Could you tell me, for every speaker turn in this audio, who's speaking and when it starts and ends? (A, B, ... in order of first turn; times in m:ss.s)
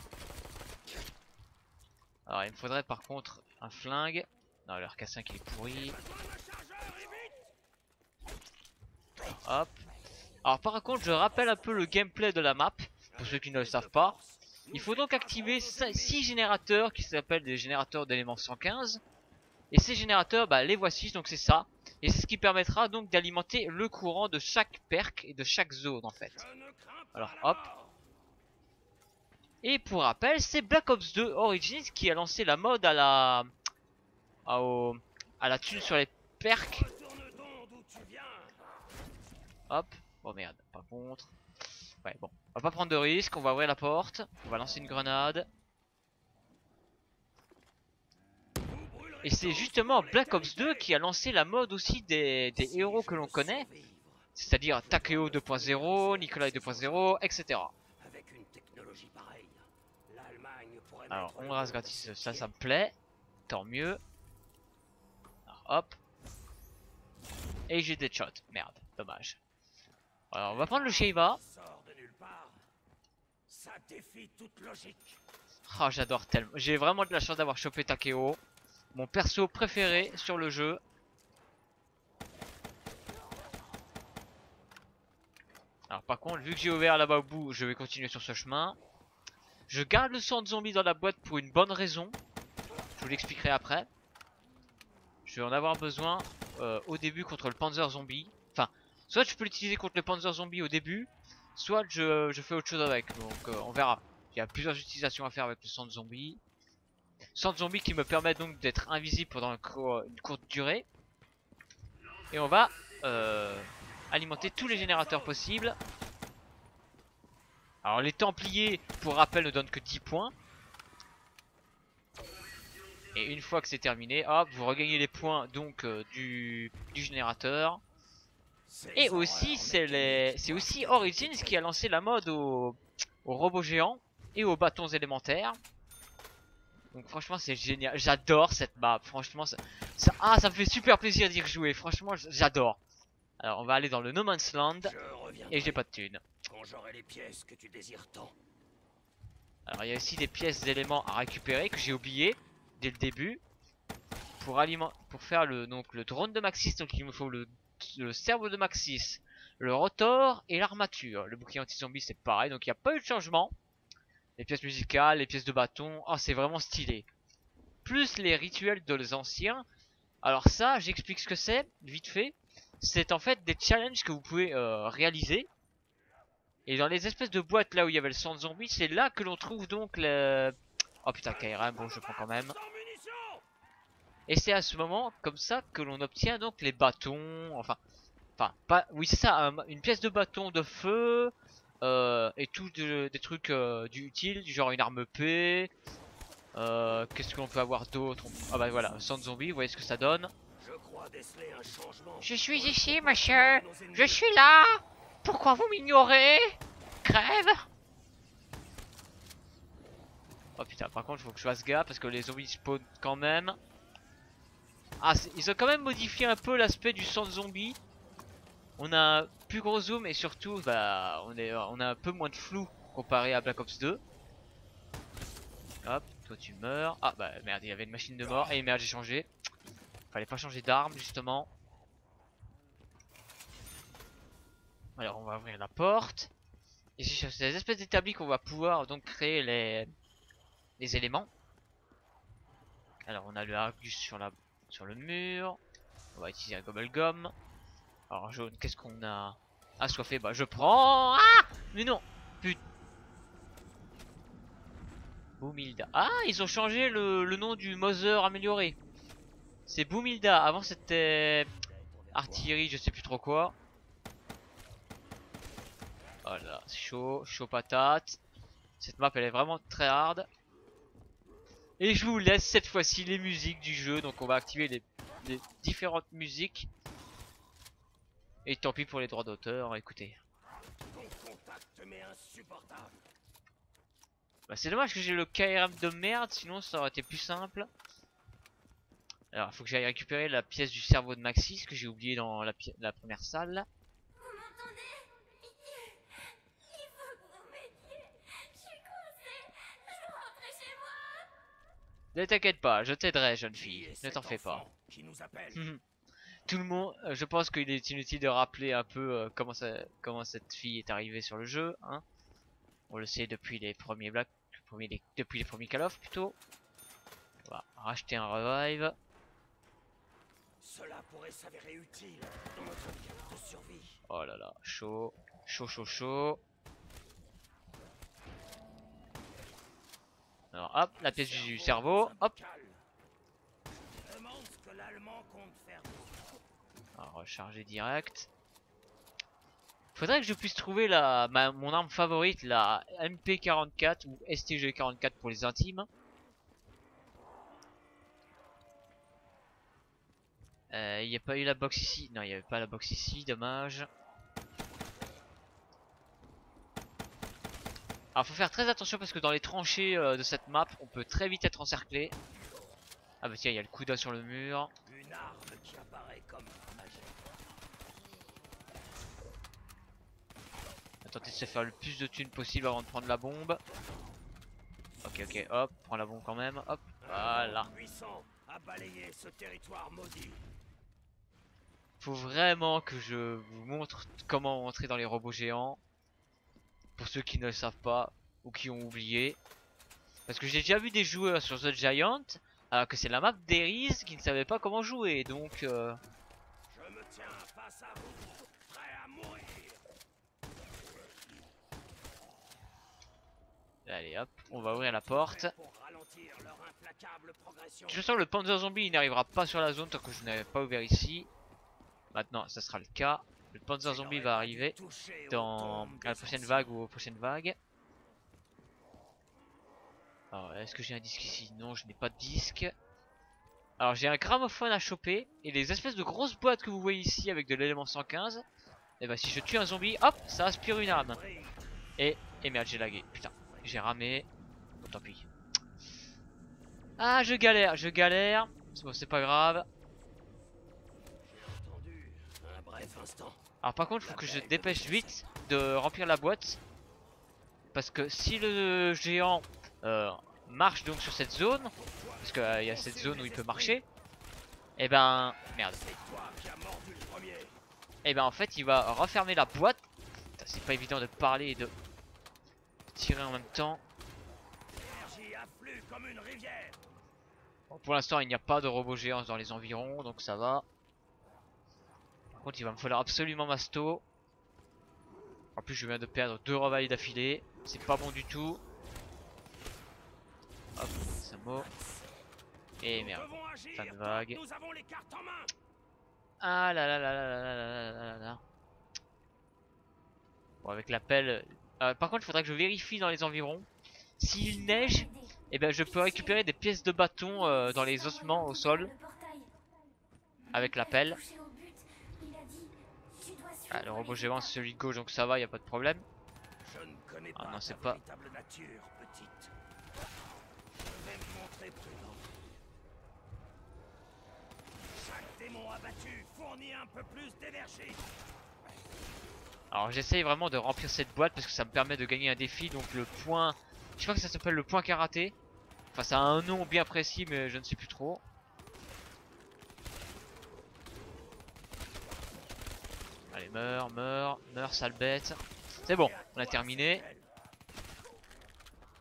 0:02.2-0:06.0 A
0:05.7-0:07.5 B
0:09.4-0:09.8 A
0:10.4-0:14.2 A
0:13.1-0:16.3 B
0:14.7-0:19.0 A
0:19.7-0:26.4 A
0:26.2-0:28.0 B
0:27.1-0:27.6 A
0:29.6-0:33.5 A
0:34.4-0:36.8 A
0:36.5-0:38.6 B
0:39.7-0:41.3 A
0:42.0-0:45.5 A
0:48.6-0:50.9 B
0:49.2-0:53.7 A
0:52.5-0:57.2 B
0:54.3-0:57.7 A
0:58.0-1:02.5 B
1:01.1-1:03.0 A
1:03.5-1:04.0 A
1:05.5-1:06.0 A
1:07.7-1:09.4 A
1:10.3-1:11.4 A
1:10.4-1:12.6 B
1:13.5-1:15.2 B
1:15.7-1:18.4 A
1:18.9-1:20.8 A
1:25.9-1:28.8 A
1:29.7-1:32.2 A
1:33.0-1:33.9 A
1:35.2-1:46.4 A
1:47.3-1:50.8 A
1:52.3-1:55.8 A
1:54.3-1:55.4 B
1:57.8-2:00.3 A
2:03.1-2:07.8 A
2:08.7-2:11.7 B
2:08.9-2:15.6 A
2:16.9-2:22.8 A
2:23.4-2:24.9 A
2:24.8-2:25.8 B
2:25.5-2:26.2 A
2:26.4-2:28.4 B
2:29.7-2:33.4 A
2:34.4-2:43.5 A
2:44.4-2:47.0 A
2:47.8-2:49.6 A
2:50.2-2:55.5 A
2:56.6-3:02.6 A
3:01.2-3:03.4 B
3:04.3-3:07.8 A
3:08.4-3:15.7 A
3:16.5-3:20.3 A
3:20.6-3:24.3 B
3:22.2-3:27.7 A
3:30.6-3:33.6 A
3:35.0-3:37.8 A
3:38.8-3:44.0 A
3:45.8-3:49.3 A
3:50.1-3:51.5 A
3:55.0-3:56.3 A
3:57.0-3:59.9 A
4:00.8-4:01.3 A
4:03.0-4:05.6 A
4:06.1-4:07.3 A
4:08.1-4:12.6 A
4:15.4-4:18.8 A
4:19.7-4:21.5 A
4:21.7-4:22.6 B
4:22.1-4:23.5 A
4:26.2-4:28.2 A
4:28.8-4:30.3 A
4:31.8-4:36.7 A
4:38.4-4:40.2 A
4:40.9-4:43.0 B
4:44.5-4:47.7 A
4:49.3-4:53.7 A
4:54.2-5:01.3 C
5:02.1-5:04.6 A
5:03.5-5:05.6 B
5:05.5-5:05.8 A
5:06.5-5:12.0 A
5:12.9-5:16.4 A
5:17.4-5:19.0 A
5:20.6-5:24.0 B
5:24.1-5:26.4 A
5:30.5-5:32.3 A
5:30.9-5:32.8 B
5:34.0-5:36.3 B
5:37.0-5:38.3 A
5:39.9-5:45.9 A
5:50.7-5:53.9 A
5:58.1-6:02.1 A
6:03.2-6:04.7 A
6:04.8-6:07.2 B
6:11.0-6:13.6 A
6:15.0-6:17.7 A
6:17.0-6:20.4 B
6:22.0-6:25.8 A
6:27.0-6:29.4 A
6:30.3-6:36.0 A
6:36.7-6:39.8 B
6:43.8-6:45.5 A
6:44.5-6:48.1 B
6:47.9-6:51.3 A
6:52.1-6:54.8 A
6:53.8-6:56.8 B
6:55.3-6:57.6 A
7:00.3-7:02.7 A
7:03.8-7:08.4 A
7:09.0-7:11.2 A
7:10.8-7:11.6 B
7:12.0-7:14.3 A
7:13.3-7:13.8 B
7:14.8-7:15.3 A
7:17.0-7:19.6 A
7:21.2-7:23.4 B
7:23.6-7:26.6 A
7:24.0-7:25.2 B
7:27.7-7:33.8 A
7:31.8-7:33.8 B
7:34.8-7:35.8 A
7:35.7-7:37.6 B
7:38.0-7:39.8 A
7:40.4-7:41.7 A
7:42.9-7:43.8 A
7:44.8-7:46.8 B
7:47.7-7:50.6 A
7:52.3-7:54.0 A
7:55.6-7:58.6 A
8:00.8-8:01.7 A
8:02.8-8:04.4 A
8:02.8-8:05.5 B
8:06.4-8:08.4 A
8:10.6-8:13.7 A
8:14.2-8:18.9 A
8:14.3-8:15.3 C
8:15.8-8:16.4 C
8:17.3-8:19.5 C
8:20.5-8:24.6 C
8:20.5-8:21.2 A
8:23.7-8:26.0 A
8:26.6-8:29.5 B
8:27.3-8:28.0 A
8:30.8-8:32.4 B
8:34.9-8:38.1 B
8:39.7-8:45.3 A
8:45.9-8:48.2 A
8:53.3-8:57.0 A
8:55.8-8:57.3 B